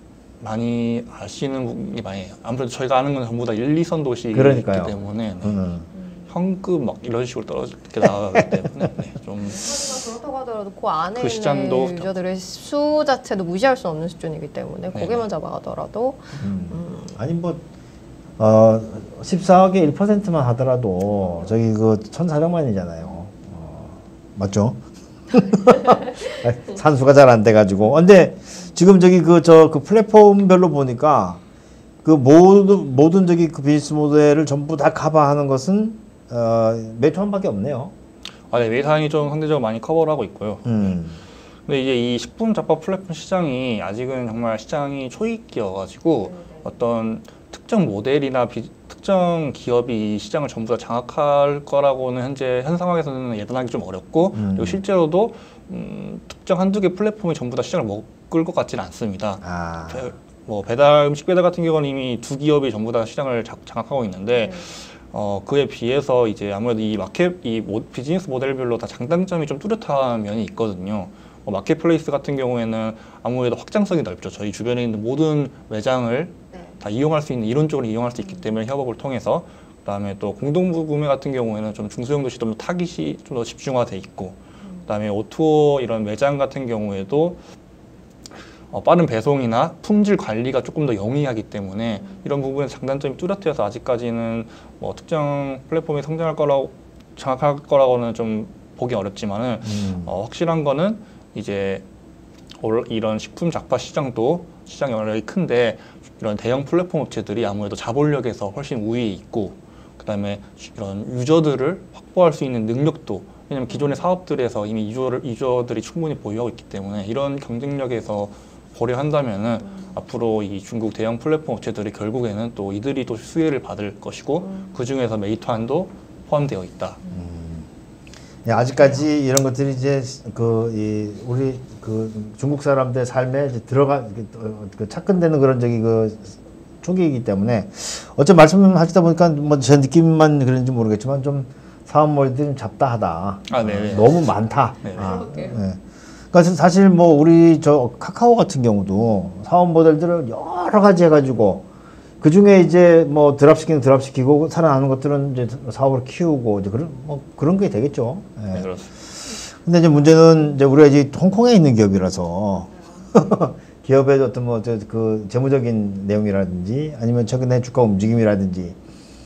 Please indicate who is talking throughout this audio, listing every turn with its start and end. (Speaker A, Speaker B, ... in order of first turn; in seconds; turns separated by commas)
Speaker A: 0.4-5.6, Speaker B: 4.3-5.9, Speaker C: 5.9-6.3, Speaker A: 6.3-9.8, Speaker C: 9.4-17.2, Speaker A: 11.2-12.1, Speaker A: 14.9-15.3, Speaker B: 16.4-17.6, Speaker B: 18.4-24.8, Speaker B: 25.3-31.4, Speaker B: 32.0-37.9, Speaker A: 38.5-41.0, Speaker B: 40.6-41.2, Speaker A: 41.7-87.4, Speaker C: 46.2-46.7, Speaker B: 54.3-54.8, Speaker B: 59.4-60.1, Speaker C: 64.3-64.8, Speaker A: 88.7-101.8, Speaker B: 99.6-100.1, Speaker A: 102.6-127.0, Speaker C: 113.7-114.1, Speaker C: 119.6-120.0, Speaker C: 124.4-124.8, Speaker B: 127.1-127.7, Speaker B: 128.4-151.7, Speaker A: 143.5-145.2, Speaker C: 144.8-145.6, Speaker B: 152.2-168.8, Speaker A: 158.5-158.9